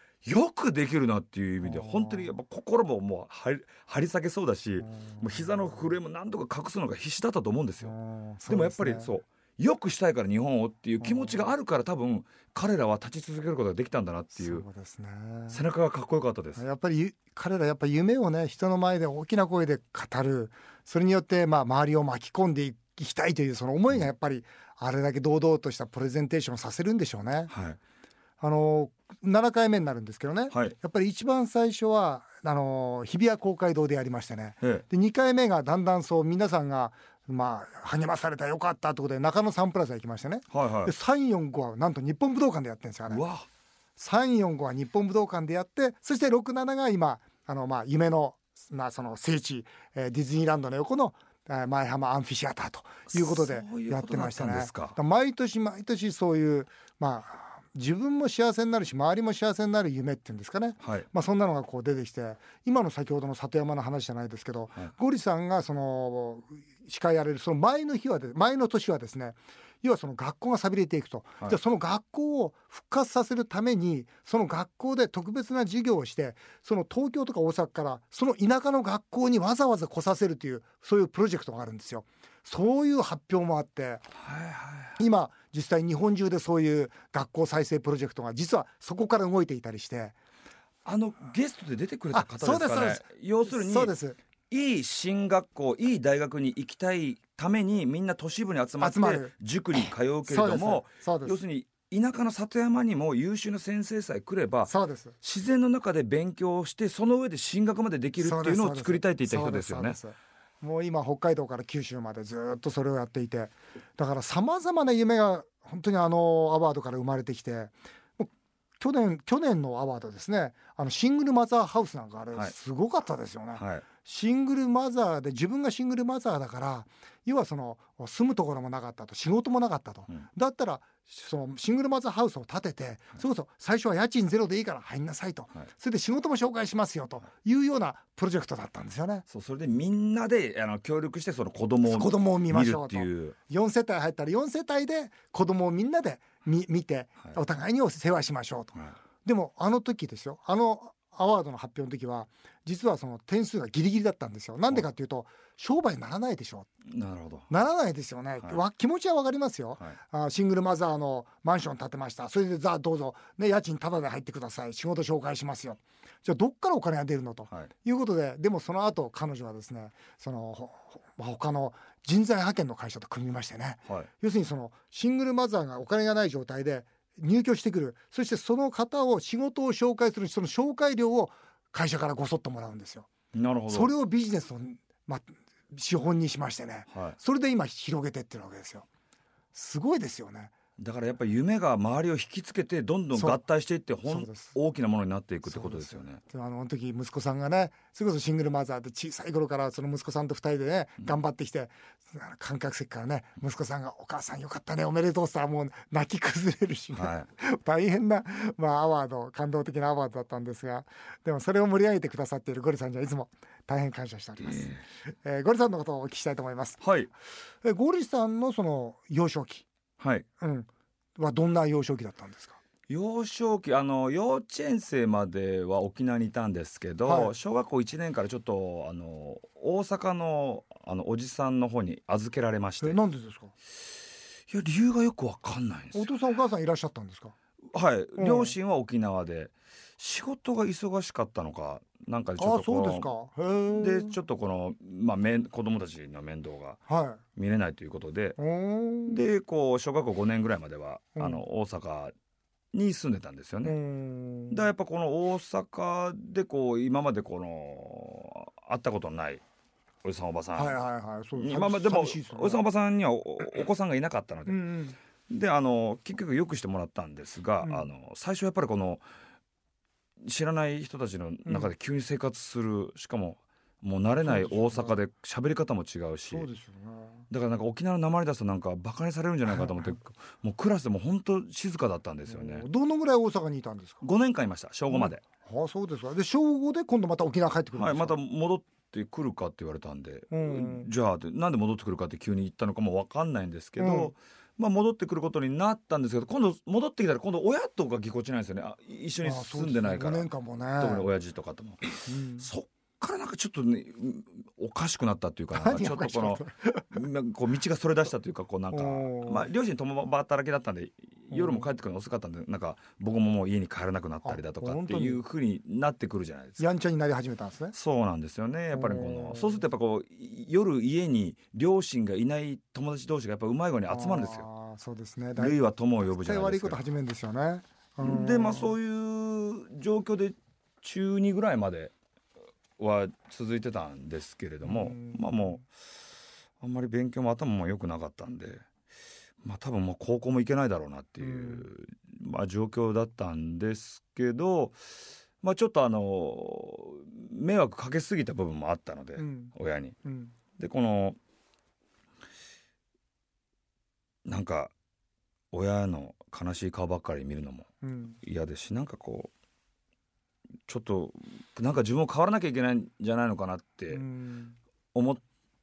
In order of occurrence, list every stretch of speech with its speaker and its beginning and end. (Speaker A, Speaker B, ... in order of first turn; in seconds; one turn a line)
Speaker A: 0.2-7.9
Speaker B: 1.6-2.3
Speaker B: 4.8-6.0
Speaker B: 7.8-9.1
Speaker A: 8.5-14.7
Speaker B: 11.0-11.5
Speaker B: 14.3-15.6
Speaker A: 15.5-16.6
Speaker B: 16.6-27.5
Speaker A: 27.5-27.8
Speaker B: 28.4-43.2
Speaker A: 30.5-30.8
Speaker A: 40.5-40.9
Speaker A: 43.1-43.5
Speaker B: 44.0-84.0
Speaker A: 53.1-55.0
Speaker A: 60.8-61.1
Speaker A: 84.2-85.0
Speaker B: 85.0-90.2
Speaker A: 90.8-93.9
Speaker B: 92.1-94.2
Speaker A: 94.5-110.0
Speaker B: 98.8-101.4
Speaker B: 104.7-105.2
Speaker B: 108.2-139.2
Speaker A: 123.5-123.9
Speaker A: 139.3-143.4
Speaker B: 141.8-156.7
Speaker A: 156.9-157.5
Speaker B: 157.5-183.1
Speaker A: 183.3-183.9
Speaker B: 183.7-188.9
Speaker A: 186.9-187.2
Speaker B: 189.5-190.5
Speaker A: 190.8-196.2
Speaker B: 193.1-193.4
Speaker B: 194.1-194.6
Speaker B: 195.5-214.7
Speaker A: 206.9-207.3
Speaker A: 214.4-214.8
Speaker B: 215.2-216.8
Speaker A: 216.8-217.1
Speaker B: 217.6-219.7
Speaker A: 220.0-220.3
Speaker B: 220.4-222.6
Speaker A: 222.9-233.0
Speaker B: 227.1-227.3
Speaker B: 232.8-233.5
Speaker A: 234.5-236.1
Speaker B: 235.9-237.3
Speaker A: 237.7-243.1
Speaker B: 238.2-238.6
Speaker B: 242.4-244.2
Speaker A: 243.7-246.8
Speaker B: 246.9-247.2
Speaker A: 247.4-248.4
Speaker B: 248.4-249.2
Speaker A: 249.1-252.1
Speaker B: 251.2-251.4
Speaker A: 252.7-253.8
Speaker B: 253.6-254.6
Speaker A: 254.5-259.4
Speaker A: 260.0-260.8
Speaker B: 260.6-262.6
Speaker A: 261.4-264.6
Speaker B: 264.5-265.0
Speaker A: 265.3-269.0
Speaker A: 270.2-276.5
Speaker B: 271.4-271.7
Speaker B: 274.2-275.0
Speaker B: 276.3-277.2
Speaker A: 277.3-282.7
Speaker B: 279.5-279.9
Speaker B: 282.3-284.0
Speaker A: 284.0-285.2
Speaker B: 284.9-288.2
Speaker A: 287.7-316.6
Speaker B: 290.3-290.9
Speaker B: 293.8-294.1
Speaker B: 299.2-301.1
Speaker B: 301.9-302.5
Speaker B: 305.5-307.0
Speaker B: 308.7-309.5
Speaker B: 311.3-311.7
Speaker B: 314.2-315.2
Speaker B: 316.6-317.8
Speaker A: 317.7-324.5
Speaker B: 318.7-319.6
Speaker B: 323.9-328.8
Speaker A: 325.4-326.8
Speaker A: 328.0-331.9
Speaker A: 332.8-335.7
Speaker B: 334.6-335.6
Speaker A: 336.6-338.6
Speaker A: 339.4-350.0
Speaker B: 341.2-341.7
Speaker B: 349.2-349.5
Speaker B: 350.1-350.3
Speaker A: 350.6-351.2
Speaker A: 354.2-354.7
Speaker A: 355.5-357.7
Speaker B: 357.8-358.2
Speaker A: 358.2-359.3
Speaker A: 360.7-364.1
Speaker B: 363.9-364.6
Speaker A: 364.9-365.2